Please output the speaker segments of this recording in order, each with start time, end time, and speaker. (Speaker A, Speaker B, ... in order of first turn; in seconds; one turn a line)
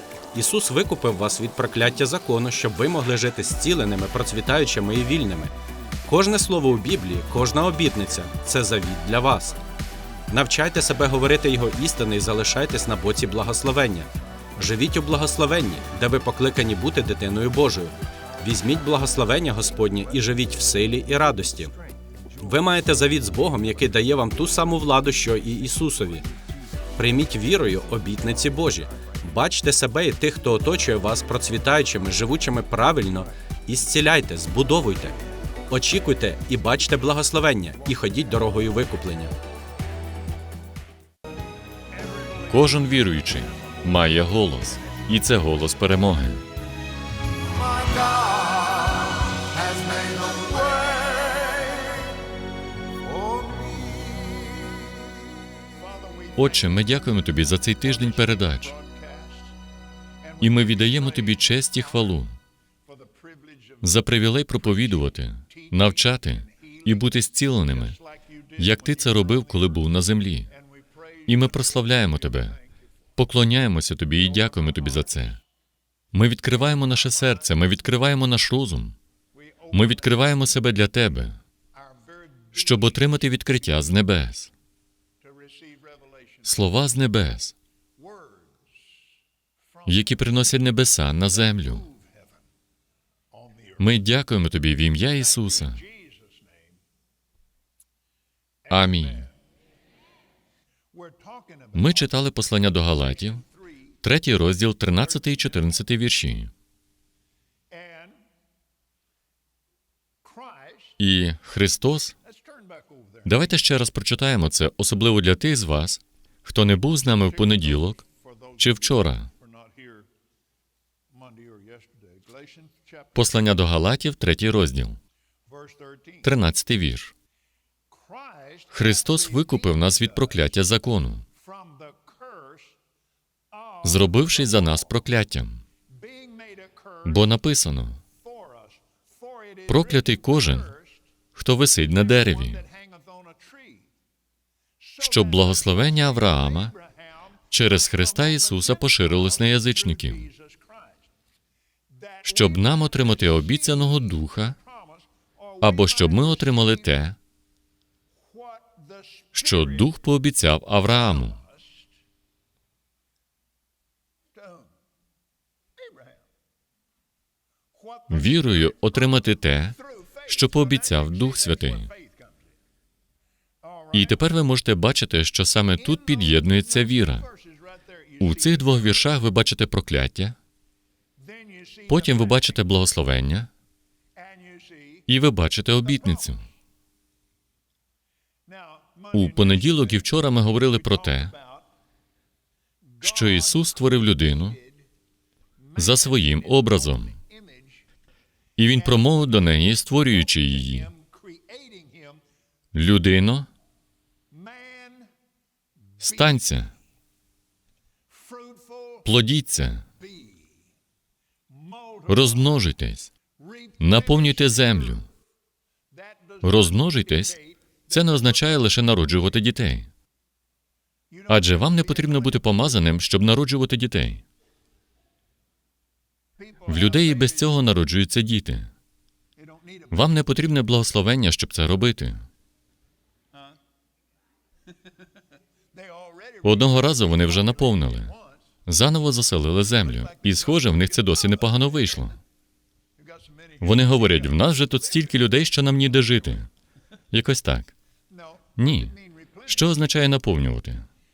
Speaker A: 0.3-5.5
Speaker A: 6.0-9.6
Speaker A: 10.3-21.7
Speaker A: 22.4-26.2
Speaker A: 26.9-39.3
Speaker B: 41.9-45.0
Speaker C: 42.5-46.5
Speaker B: 47.5-52.1
Speaker B: 53.0-55.0
Speaker B: 55.5-57.0
Speaker C: 56.4-58.7
Speaker B: 57.7-59.5
Speaker B: 60.2-62.2
Speaker C: 60.4-62.4
Speaker B: 62.9-69.9
Speaker C: 63.8-68.0
Speaker C: 68.6-70.5
Speaker B: 70.5-72.8
Speaker C: 71.2-72.6
Speaker C: 73.2-75.4
Speaker B: 74.2-75.4
Speaker C: 76.1-79.0
Speaker B: 76.6-77.7
Speaker B: 79.3-80.5
Speaker C: 79.7-81.4
Speaker B: 81.7-83.0
Speaker C: 82.5-84.5
Speaker B: 85.2-86.6
Speaker C: 86.4-87.5
Speaker B: 88.0-89.0
Speaker B: 89.6-92.4
Speaker C: 89.8-91.9
Speaker B: 93.3-94.0
Speaker C: 93.8-95.8
Speaker B: 95.0-96.8
Speaker B: 98.6-99.3
Speaker C: 98.7-99.3
Speaker B: 100.9-102.2
Speaker C: 101.7-103.4
Speaker B: 103.1-104.0
Speaker C: 104.0-106.5
Speaker B: 105.2-105.7
Speaker B: 107.7-108.2
Speaker B: 110.2-111.0
Speaker C: 111.0-112.1
Speaker B: 112.2-113.5
Speaker C: 113.2-118.0
Speaker B: 117.1-120.1
Speaker C: 118.6-119.3
Speaker B: 121.1-123.2
Speaker C: 123.1-125.0
Speaker B: 125.5-126.3
Speaker C: 126.2-127.1
Speaker B: 127.9-130.5
Speaker C: 128.7-131.2
Speaker B: 131.3-132.8
Speaker B: 133.5-134.9
Speaker C: 133.8-135.6
Speaker B: 135.9-137.3
Speaker C: 137.0-138.0
Speaker B: 138.2-141.1
Speaker C: 139.7-140.7
Speaker C: 141.3-142.6
Speaker B: 141.8-143.9
Speaker B: 144.8-151.1
Speaker C: 145.0-146.7
Speaker C: 147.5-150.3
Speaker B: 151.9-157.0
Speaker C: 152.2-154.6
Speaker C: 155.6-157.2
Speaker B: 158.2-160.0
Speaker C: 159.3-161.4
Speaker B: 161.1-161.9
Speaker B: 164.3-164.7
Speaker B: 165.8-166.2
Speaker B: 167.7-172.5
Speaker C: 168.1-171.9
Speaker B: 173.6-174.2
Speaker C: 173.9-177.3
Speaker B: 175.7-179.2
Speaker C: 178.2-180.4
Speaker B: 181.2-182.7
Speaker C: 181.9-183.5
Speaker B: 184.2-185.1
Speaker C: 185.1-186.4
Speaker B: 186.1-186.4
Speaker B: 188.4-191.7
Speaker C: 189.1-191.3
Speaker B: 192.9-194.9
Speaker C: 193.0-194.6
Speaker B: 195.6-197.8
Speaker C: 195.8-197.2
Speaker C: 198.6-200.9
Speaker B: 198.6-199.3
Speaker B: 199.8-202.2
Speaker C: 202.7-203.5
Speaker B: 204.3-205.1
Speaker B: 206.0-206.4
Speaker C: 206.0-206.7
Speaker B: 208.1-209.1
Speaker C: 209.0-209.8
Speaker B: 210.0-210.7
Speaker B: 211.5-212.7
Speaker C: 212.1-213.1
Speaker B: 213.4-215.1
Speaker C: 213.8-215.1
Speaker B: 215.9-218.7
Speaker C: 216.4-217.4
Speaker C: 217.9-219.9
Speaker B: 221.1-222.6
Speaker C: 221.3-224.2
Speaker B: 226.4-227.6
Speaker C: 226.7-228.7
Speaker B: 229.4-230.1
Speaker C: 229.9-232.2
Speaker B: 233.3-233.6
Speaker B: 235.7-238.4
Speaker C: 236.4-238.1
Speaker C: 238.7-242.2
Speaker B: 239.8-242.1
Speaker B: 243.0-245.4
Speaker C: 243.6-246.5
Speaker C: 247.1-247.7
Speaker B: 248.1-249.7
Speaker C: 248.6-248.9
Speaker C: 249.4-250.9